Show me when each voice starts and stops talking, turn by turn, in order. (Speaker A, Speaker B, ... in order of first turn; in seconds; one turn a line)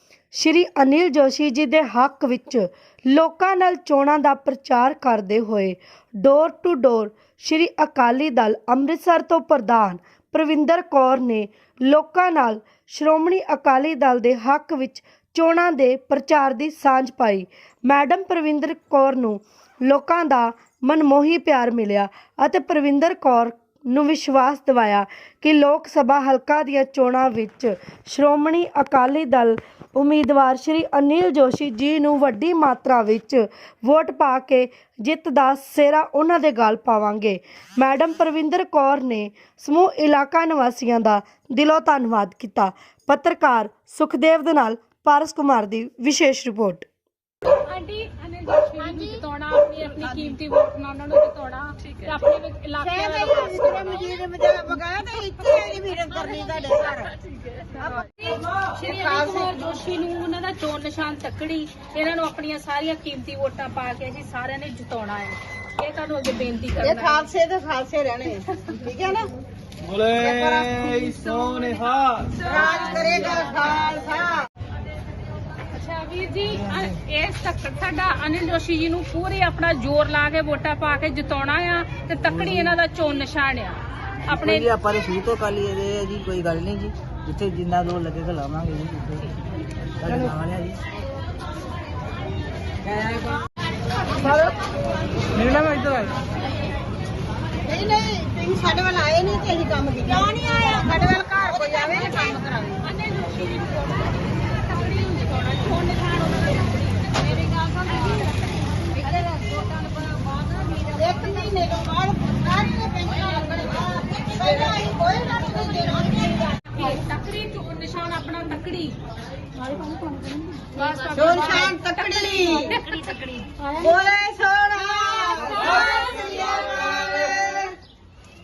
Speaker A: 0.3-46.9
Speaker B: 47.5-54.0
Speaker C: 52.8-57.1
Speaker C: 57.7-59.5
Speaker B: 58.2-67.2
Speaker C: 66.8-69.3
Speaker C: 69.9-71.8
Speaker B: 72.2-73.4
Speaker C: 72.4-74.5
Speaker B: 75.7-84.7
Speaker D: 82.2-82.8
Speaker D: 84.3-89.3
Speaker D: 90.0-90.8
Speaker D: 92.9-93.2
Speaker C: 97.6-102.8
Speaker B: 100.7-101.0
Speaker B: 101.7-108.3
Speaker C: 110.6-116.5
Speaker B: 116.7-119.0
Speaker B: 120.7-123.6
Speaker C: 121.1-122.8
Speaker C: 123.8-127.7
Speaker B: 125.5-126.3